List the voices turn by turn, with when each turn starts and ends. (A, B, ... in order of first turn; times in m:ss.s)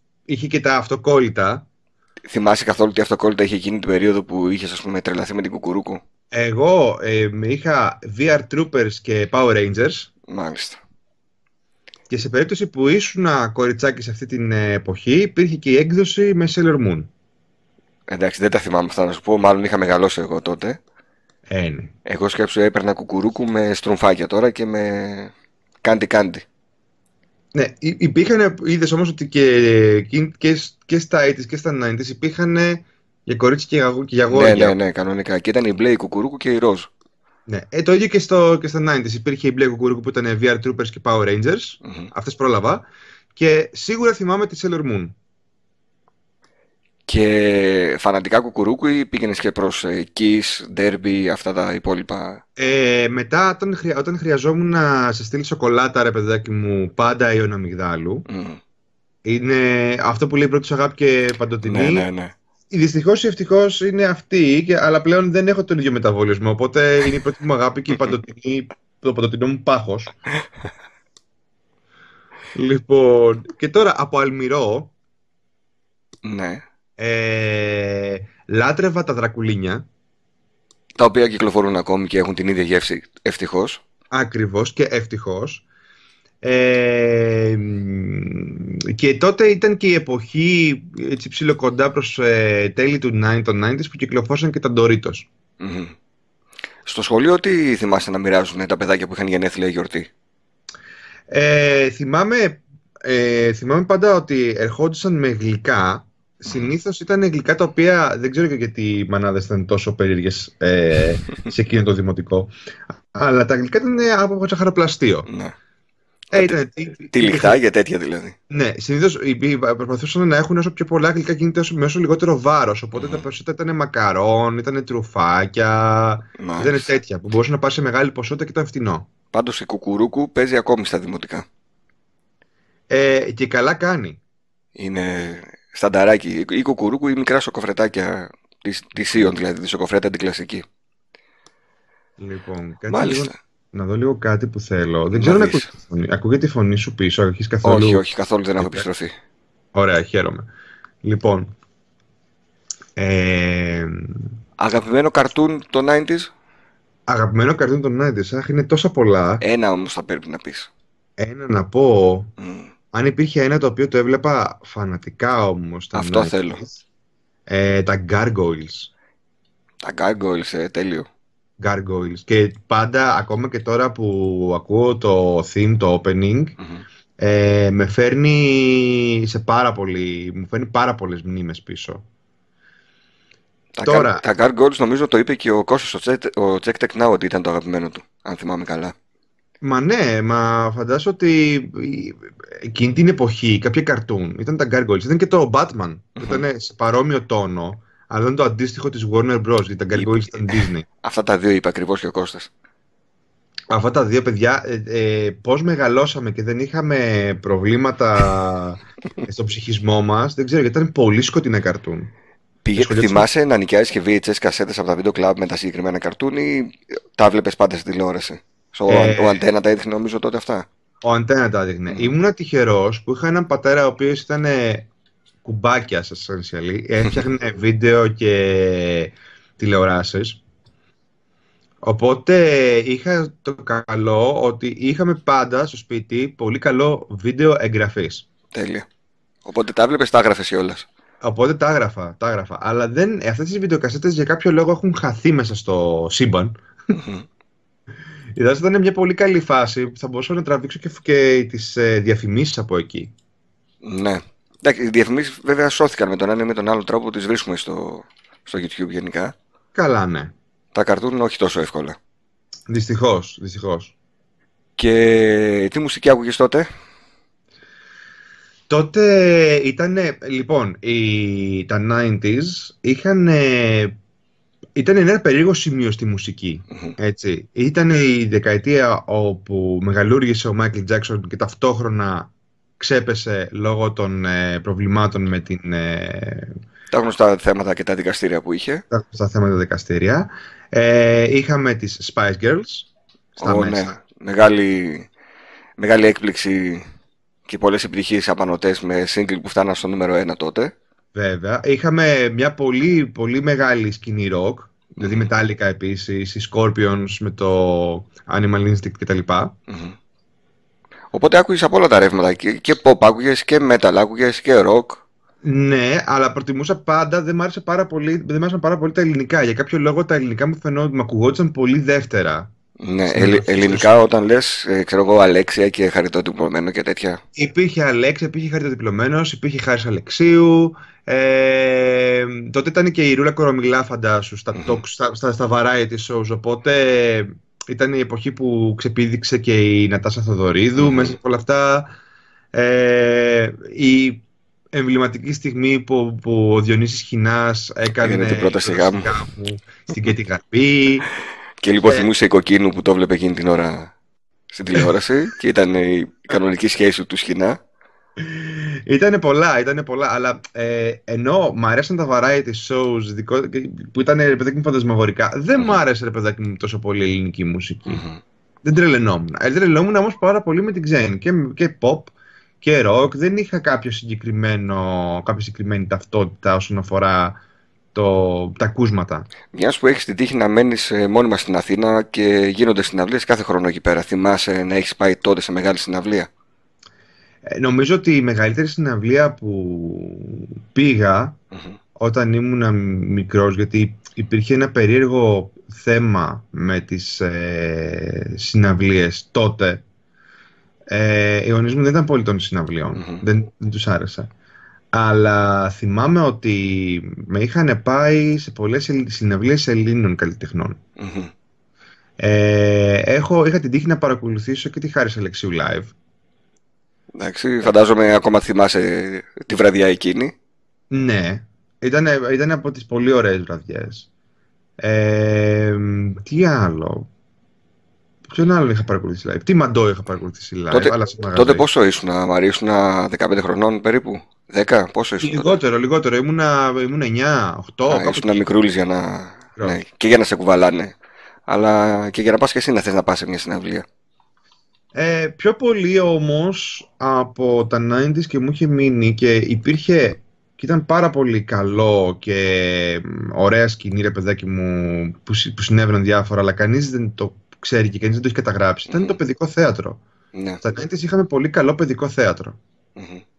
0:00.3-0:01.6 A
0:02.3-0:06.0 B
0:06.3-0:10.1 A
0:10.3-0:10.8 B
0:12.1-0:17.1 A
0:18.1-0:20.8 B
0:21.5-0:21.9 A
0:22.0-0:25.3 B
0:25.8-0:26.4 B
0:27.5-0:34.8 A
0:34.3-0:36.9 B
0:37.5-0:42.8 A
0:41.8-0:42.1 B
0:43.3-0:45.1 A
0:47.1-0:52.4 B
0:52.6-0:58.2 A
0:58.3-0:58.6 B
0:59.2-1:02.1 A
1:01.6-1:02.3 B
1:02.7-1:10.1 A
1:12.5-1:14.9 A
1:16.2-1:16.6 B
1:17.0-1:19.8 A
1:21.0-1:23.8 B
1:24.1-1:25.6 A
1:26.4-1:35.2 A
1:35.6-1:35.9 B
1:36.8-1:40.1 B
1:41.3-1:55.3 A
1:55.3-1:55.5 B
1:56.3-1:57.6 A
1:57.1-1:58.4 B
1:58.5-2:09.1 A
2:02.9-2:03.2 B
2:06.4-2:06.9 B
2:09.3-2:11.4 B
2:12.9-2:14.2 A
2:14.8-2:20.6 B
2:22.2-2:28.0 A
2:22.9-2:23.3 B
2:25.1-2:25.7 B
2:27.6-2:29.1 B
2:28.6-2:28.8 A
2:29.7-2:30.5 A
2:31.0-2:31.5 A
2:33.0-2:34.3 A
2:34.6-2:36.3 B
2:37.1-2:39.4 A
2:39.4-2:40.7 B
2:41.2-2:42.3 A
2:42.4-2:42.7 B
2:42.9-2:46.8 A
2:45.9-2:46.6 B
2:47.5-2:48.9 A
2:49.8-2:51.1 B
2:51.6-2:56.5 A
2:56.6-2:56.8 B
2:57.2-3:02.0 A
3:03.7-3:08.9 B
3:03.8-3:04.2 A
3:09.6-3:20.8 A
3:16.2-3:16.4 B
3:19.9-3:22.5 B
3:23.7-3:32.1 A
3:32.6-3:40.7 B
3:32.8-3:33.2 A
3:38.9-3:39.4 A
3:41.0-3:44.9 A
3:45.4-3:50.4 A
3:51.8-3:58.2 A
3:58.5-3:58.9 B
3:59.4-4:00.9 B
4:01.2-4:06.6 A
4:06.9-4:07.3 B
4:08.3-4:13.1 A
4:13.8-4:19.3 B
4:19.7-4:20.3 A
4:20.7-4:22.0 B
4:22.7-4:23.9 A
4:24.8-4:26.7 B
4:28.7-4:34.0 A
4:34.7-4:46.6 A
4:36.7-4:37.0 B
4:46.9-4:48.8 B
4:48.9-4:53.9 A
4:53.4-4:55.1 B
4:55.8-4:56.8 B
4:57.5-5:00.7 B
5:01.1-5:09.5 A
5:05.0-5:05.3 B
5:09.7-5:10.0 B
5:11.1-5:15.0 B
5:15.4-5:22.5 A
5:22.8-5:27.2 B
5:23.1-5:24.0 A
5:27.3-5:41.9 A
5:34.5-5:34.8 B
5:40.8-5:41.1 B
5:42.5-5:51.1 A
5:48.0-5:49.1 B
5:51.6-5:53.9 B
5:54.5-5:57.6 B
5:58.2-6:08.0 A
6:05.5-6:05.8 B
6:07.8-6:08.2 B
6:08.6-6:17.4 A
6:17.9-6:19.3 A
6:19.5-6:26.3 B
6:27.4-6:31.4 A
6:31.5-6:31.8 B
6:32.0-6:39.8 A
6:40.9-6:44.3 A
6:42.9-6:43.2 B
6:44.9-6:50.8 A
6:51.0-6:51.3 B
6:52.2-6:55.9 A
6:57.1-7:00.3 B
7:00.9-7:04.1 A
7:04.8-7:07.1 A
7:08.3-7:11.6 A
7:10.7-7:15.6 B
7:15.2-7:18.4 A
7:17.9-7:20.9 B
7:21.5-7:23.8 B
7:24.9-7:40.0 A
7:38.9-7:39.2 B
7:40.3-7:40.6 B
7:40.6-7:42.6 A
7:43.0-7:43.2 B